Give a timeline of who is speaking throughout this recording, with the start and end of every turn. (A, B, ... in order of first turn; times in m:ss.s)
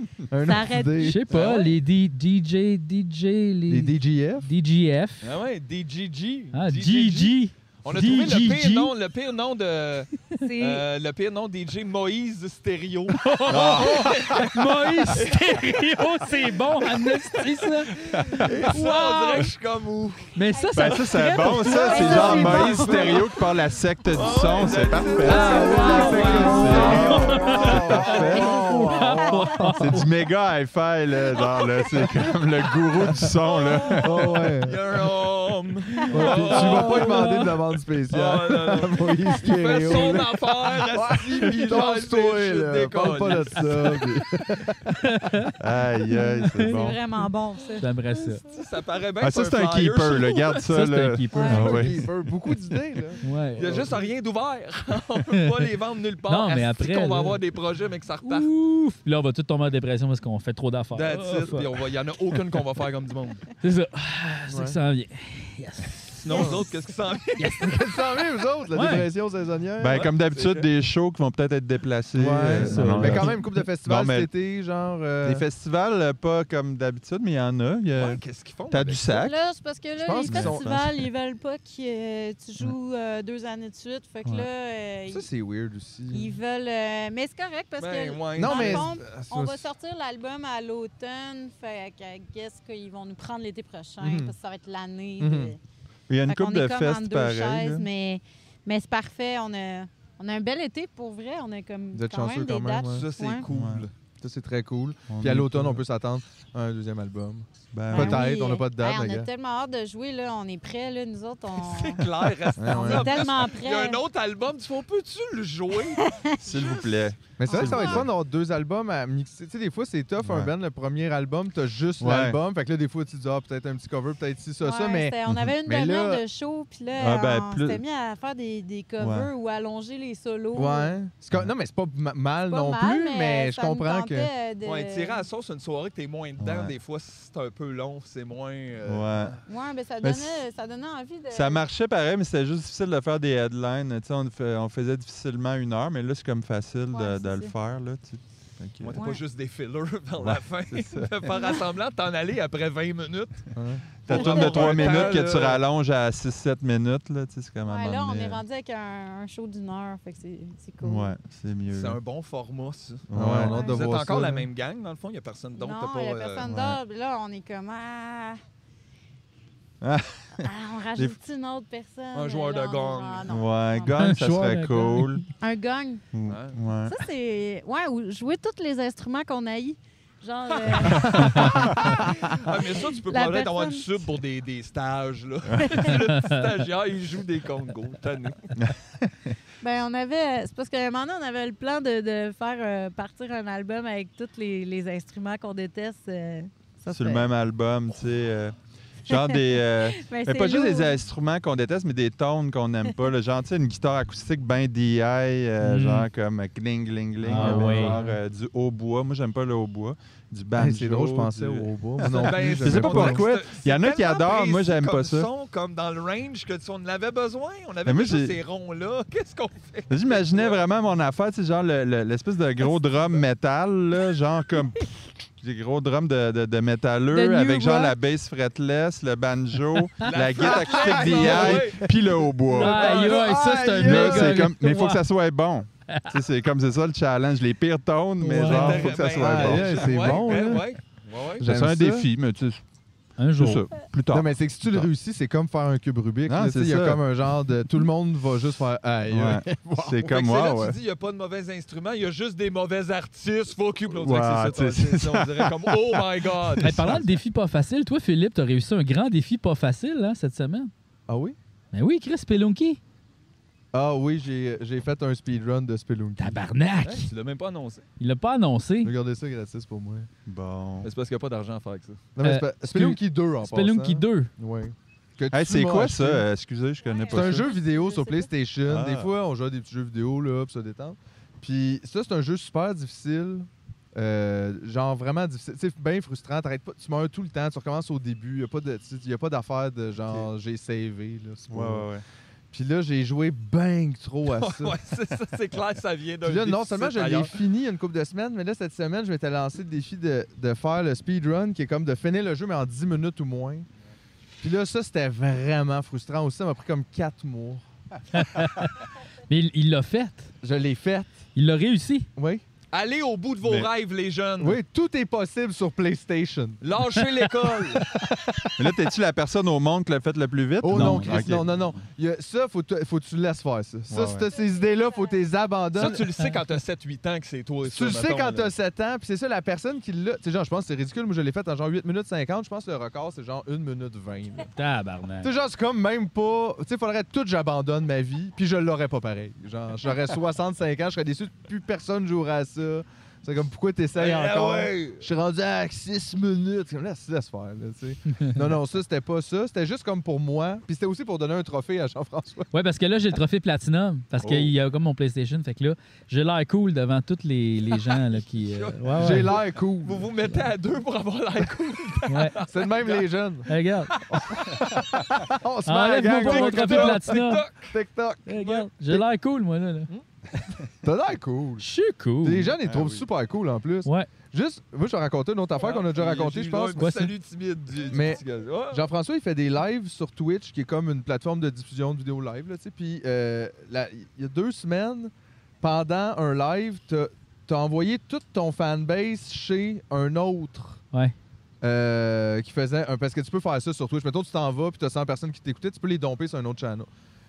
0:00.3-0:01.2 A
0:00.4-0:01.2 B
0:01.0-0:05.3 C
0:01.3-0:01.8 D
0:03.7-0:04.5 A
0:05.2-0:20.3 D
0:06.5-0:08.9 C
0:10.4-0:10.8 B
0:13.1-0:18.0 C
0:13.5-0:14.6 E
0:18.1-0:18.7 E
0:18.7-0:19.4 C
0:20.3-0:23.0 C
0:20.5-0:23.2 B
0:20.8-0:28.6 E
0:22.5-0:23.3 D
0:24.1-0:29.2 D
0:25.2-0:28.0 C
0:25.3-0:27.0 B
0:25.3-0:30.0 A
0:28.6-0:30.1 C
0:29.8-0:34.3 E
0:31.3-0:37.5 D
0:34.0-0:34.8 A
0:36.1-0:45.0 A
0:36.8-0:37.4 C
0:38.1-0:44.2 D
0:45.0-0:45.6 C
0:45.6-0:47.0 E
0:46.1-0:47.8 B
0:47.8-0:48.4 C
0:48.5-0:50.6 D
0:49.2-0:52.1 E
0:50.7-0:52.0 C
0:51.3-0:51.7 B
0:51.4-0:54.1 A
0:53.2-0:53.8 C
0:53.6-0:58.5 D
0:55.4-0:55.6 C
0:56.3-0:57.4 C
0:58.2-1:01.7 C
1:00.9-1:03.4 D
1:03.6-1:06.6 C
1:04.5-1:04.8 A
1:06.2-1:07.7 D
1:06.3-1:06.6 A
1:07.4-1:07.8 C
1:07.6-1:10.0 A
1:08.7-1:09.1 C
1:09.8-1:14.3 E
1:09.9-1:10.7 D
1:12.1-1:15.4 A
1:12.5-1:13.6 C
1:15.2-1:19.4 E
1:18.0-1:19.2 D
1:19.1-1:25.2 B
1:20.0-1:20.6 A
1:20.3-1:21.0 E
1:25.1-1:26.4 A
1:26.1-1:35.6 B
1:27.8-1:28.9 D
1:28.4-1:29.7 A
1:34.0-1:34.3 A
1:35.2-1:35.5 A
1:36.1-1:37.8 E
1:36.3-1:43.4 B
1:41.9-1:43.1 A
1:42.9-1:43.9 D
1:43.5-1:43.9 E
1:44.2-1:49.3 A
1:45.1-1:45.8 E
1:47.7-1:48.2 E
1:47.9-1:52.1 B
1:51.5-1:56.1 D
1:52.6-1:53.2 A
1:52.7-1:54.0 B
1:55.9-1:56.8 B
1:56.4-1:58.1 E
1:57.4-2:06.2 A
1:57.4-1:58.0 B
2:00.2-2:00.5 E
2:02.0-2:02.4 E
2:04.6-2:10.9 B
2:05.3-2:05.5 E
2:07.0-2:07.8 E
2:09.0-2:09.3 E
2:10.5-2:14.3 A
2:12.5-2:15.2 B
2:14.6-2:19.4 D
2:16.4-2:16.7 E
2:18.8-2:19.4 E
2:19.4-2:21.6 B
2:20.0-2:20.4 E
2:21.3-2:28.9 E
2:26.9-2:27.5 B
2:28.8-2:33.5 D
2:28.9-2:29.2 B
2:30.2-2:31.4 E
2:33.5-2:33.8 A
2:34.0-2:35.6 D
2:34.0-2:38.4 E
2:34.1-2:35.2 B
2:37.7-2:41.1 B
2:40.8-2:42.0 E
2:41.7-2:46.4 D
2:43.1-2:43.6 E
2:43.1-2:44.5 A
2:43.5-2:43.8 B
2:45.6-2:48.4 B
2:46.4-2:46.8 E
2:49.8-2:51.1 E
2:50.4-2:54.0 B
2:52.1-2:53.3 D
2:53.3-2:55.2 E
2:54.0-2:55.2 C
2:55.4-2:56.0 B
2:56.1-2:57.0 E
2:56.3-2:56.6 D
2:56.8-3:04.0 B
3:00.6-3:08.6 D
3:00.9-3:01.7 E
3:05.6-3:05.9 B
3:06.1-3:06.4 C
3:08.6-3:09.4 E
3:09.6-3:17.3 B
3:16.9-3:35.3 E
3:19.1-3:21.0 B
3:25.6-3:26.1 C
3:27.2-3:28.1 C
3:27.3-3:28.0 A
3:30.5-3:33.2 A
3:32.1-3:40.6 D
3:37.8-3:38.4 E
3:39.9-3:53.1 E
3:47.1-3:47.9 B
3:50.0-3:51.9 D
3:50.8-3:52.0 A
3:52.5-3:55.0 C
3:52.6-3:54.5 A
3:52.6-3:53.9 D
3:53.8-4:00.6 E
3:58.2-3:58.8 C
3:58.3-4:00.7 A
3:58.4-4:01.4 D
4:01.4-4:02.1 A
4:01.4-4:02.6 E
4:03.2-4:03.7 C
4:03.3-4:04.9 E
4:04.1-4:10.0 A
4:06.3-4:07.0 E
4:09.1-4:10.8 E
4:10.0-4:17.0 D
4:13.9-4:17.0 E
4:16.6-4:20.7 C
4:21.1-4:21.4 A
4:21.7-4:22.8 C
4:23.7-4:27.0 A
4:26.2-4:27.1 C
4:27.1-4:27.8 D
4:28.0-4:28.9 C
4:28.8-4:30.1 A
4:30.2-4:30.9 E
4:30.8-4:32.0 D
4:32.2-4:36.3 A
4:32.2-4:34.3 C
4:35.3-4:37.5 E
4:36.8-4:38.3 B
4:37.1-4:51.9 A
4:38.6-4:39.1 E
4:51.5-4:52.0 E
4:52.5-4:54.8 A
4:54.3-4:57.4 D
4:56.2-5:03.7 A
5:04.4-5:07.6 A
5:08.1-5:08.7 C
5:09.3-5:10.3 C
5:10.4-5:11.2 A
5:11.3-5:12.1 C
5:12.2-5:12.4 A
5:12.7-5:14.6 D
5:14.4-5:16.6 A
5:16.6-5:17.8 D
5:17.9-5:18.5 A
5:18.6-5:21.4 E
5:20.6-5:26.0 A
5:20.7-5:21.4 C
5:23.9-5:24.3 E
5:25.7-5:28.5 D
5:27.6-5:34.5 A
5:34.5-5:35.3 C
5:35.2-5:52.5 A
5:43.9-5:45.0 D
5:52.5-5:59.4 C
5:54.2-5:54.5 E
5:57.7-6:03.1 D
5:59.0-6:00.1 A
6:02.1-6:02.4 C
6:02.5-6:03.5 A
6:03.5-6:03.9 C
6:03.9-6:04.6 D
6:04.1-6:09.0 A
6:05.6-6:07.5 C
6:06.2-6:07.7 D
6:08.3-6:10.4 C
6:10.8-6:11.7 A
6:11.6-6:12.5 C
6:12.2-6:16.9 A
6:12.6-6:13.0 E
6:13.8-6:14.1 C
6:15.5-6:18.9 D
6:16.8-6:17.1 C
6:17.9-6:30.8 A
6:31.6-6:36.9 A